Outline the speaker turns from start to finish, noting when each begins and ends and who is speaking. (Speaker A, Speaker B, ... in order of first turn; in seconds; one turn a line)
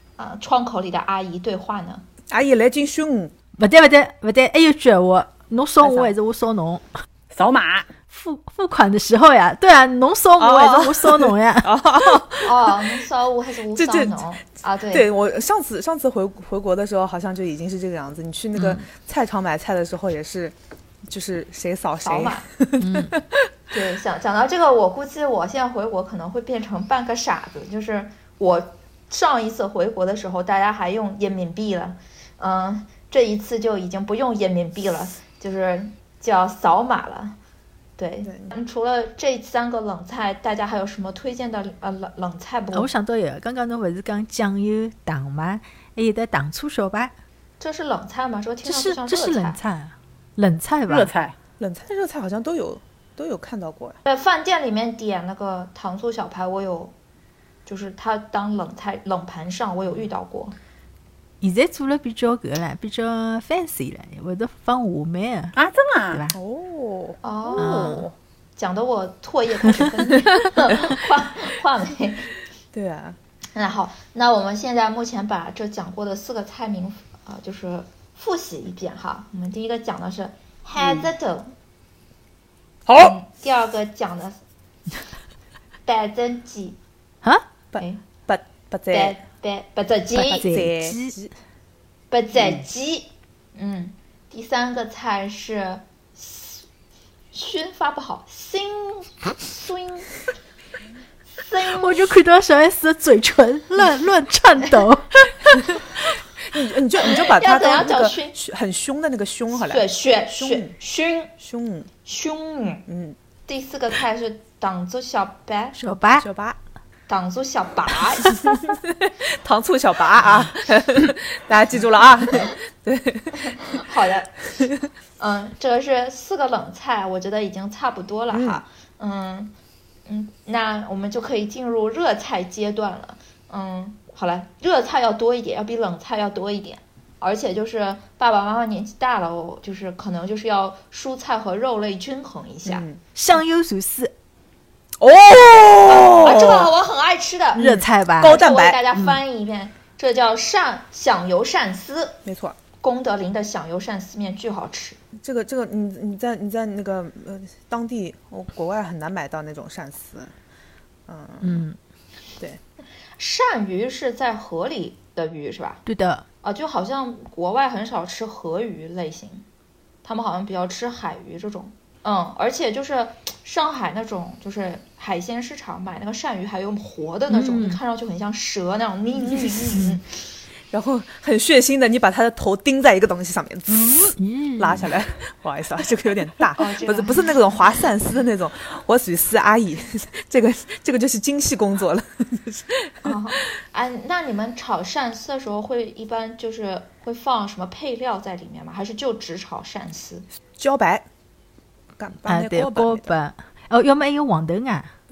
Speaker A: 0.2-2.0
Speaker B: 2.3-3.3
Speaker C: 3.6-6.9
Speaker B: 5.8-6.1
Speaker D: 7.3-7.9
Speaker C: 8.1-11.7
Speaker B: 10.4-13.0
Speaker A: 12.4-15.1
Speaker B: 13.8-14.3
Speaker B: 14.9-20.6
Speaker C: 18.6-18.8
Speaker B: 21.1-23.5
Speaker A: 22.0-22.5
Speaker C: 22.8-23.1
Speaker A: 23.7-37.4
Speaker A: 38.0-42.9
Speaker B: 38.2-38.5
Speaker C: 42.7-47.1
Speaker A: 47.6-49.6
Speaker C: 48.6-51.1
Speaker D: 50.9-51.4
Speaker B: 51.6-54.0
Speaker A: 54.0-56.9
Speaker A: 57.7-60.6
Speaker C: 61.4-65.6
Speaker D: 65.5-66.2
Speaker C: 66.1-66.4
Speaker B: 66.3-68.1
Speaker A: 67.2-68.0
Speaker C: 67.6-68.1
Speaker A: 68.6-72.3
Speaker B: 72.7-73.2
Speaker A: 73.5-81.5
Speaker D: 80.8-81.1
Speaker B: 82.9-83.2
Speaker A: 83.0-84.4
Speaker A: 85.9-86.8
Speaker B: 87.7-89.2
Speaker A: 88.9-90.5
Speaker B: 90.2-91.3
Speaker C: 90.3-91.2
Speaker A: 92.1-96.7
Speaker A: 97.3-100.1
Speaker A: 101.4-102.1
Speaker C: 101.8-105.9
Speaker B: 106.5-110.8
Speaker A: 107.0-108.4
Speaker A: 109.5-111.3
Speaker B: 111.4-111.9
Speaker A: 112.0-112.9
Speaker B: 112.9-113.2
Speaker A: 113.5-115.8
Speaker C: 115.8-116.3
Speaker B: 116.2-116.6
Speaker A: 117.1-118.4
Speaker B: 118.4-123.8
Speaker A: 123.5-124.3
Speaker A: 125.2-129.5
Speaker B: 128.3-128.6
Speaker A: 130.1-142.9
Speaker B: 142.7-143.0
Speaker C: 143.2-144.1
Speaker B: 145.0-146.7
Speaker A: 145.9-152.2
Speaker B: 147.6-148.8
Speaker C: 147.6-148.4
Speaker B: 152.2-152.6
Speaker A: 152.8-155.0
Speaker B: 155.2-160.3
Speaker B: 161.1-161.7
Speaker C: 161.4-161.8
Speaker A: 163.2-165.8
Speaker C: 165.9-166.3
Speaker A: 166.4-169.4
Speaker A: 170.0-180.0
Speaker C: 177.3-177.8
Speaker B: 179.2-179.9
Speaker B: 180.7-193.1
Speaker C: 184.2-184.9
Speaker A: 186.6-187.4
Speaker A: 193.0-200.3
Speaker B: 200.6-201.1
Speaker B: 202.0-203.1
Speaker C: 202.3-204.9